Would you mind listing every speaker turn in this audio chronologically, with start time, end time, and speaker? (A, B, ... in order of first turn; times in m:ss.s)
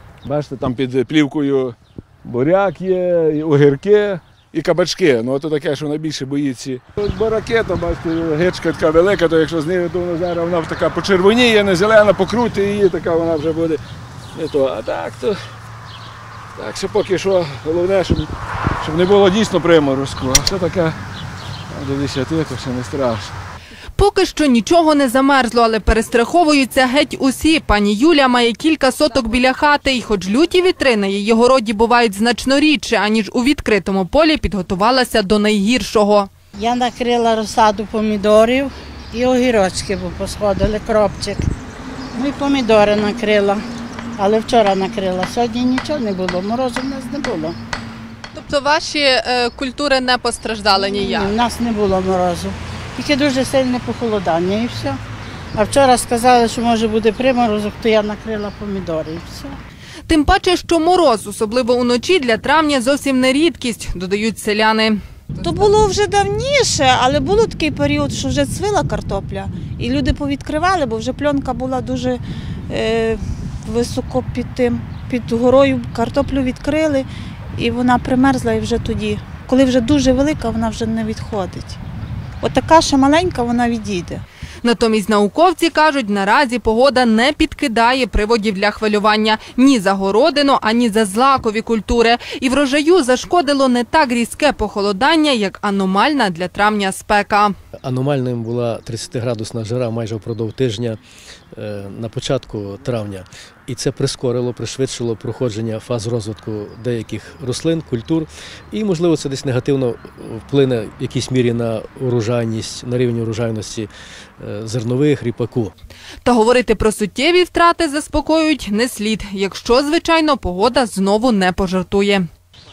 0:00.2-0:13.8 A
0:14.3-0:15.3 A
0:16.6-0:18.3 A
0:18.8-0:21.0 A
0:21.7-0:23.3 A
0:24.0-0:36.3 B
0:36.6-0:41.4 C
0:42.1-0:43.6 C
0:44.2-0:47.6 C
0:48.3-0:51.4 B
0:50.9-0:55.0 C
0:55.5-0:59.6 C
1:00.1-1:05.0 B
1:05.4-1:21.8 D
1:22.4-1:24.2 D
1:24.6-1:37.5 B
1:37.8-1:41.0 E
1:41.5-1:55.7 E
1:56.2-2:02.2 B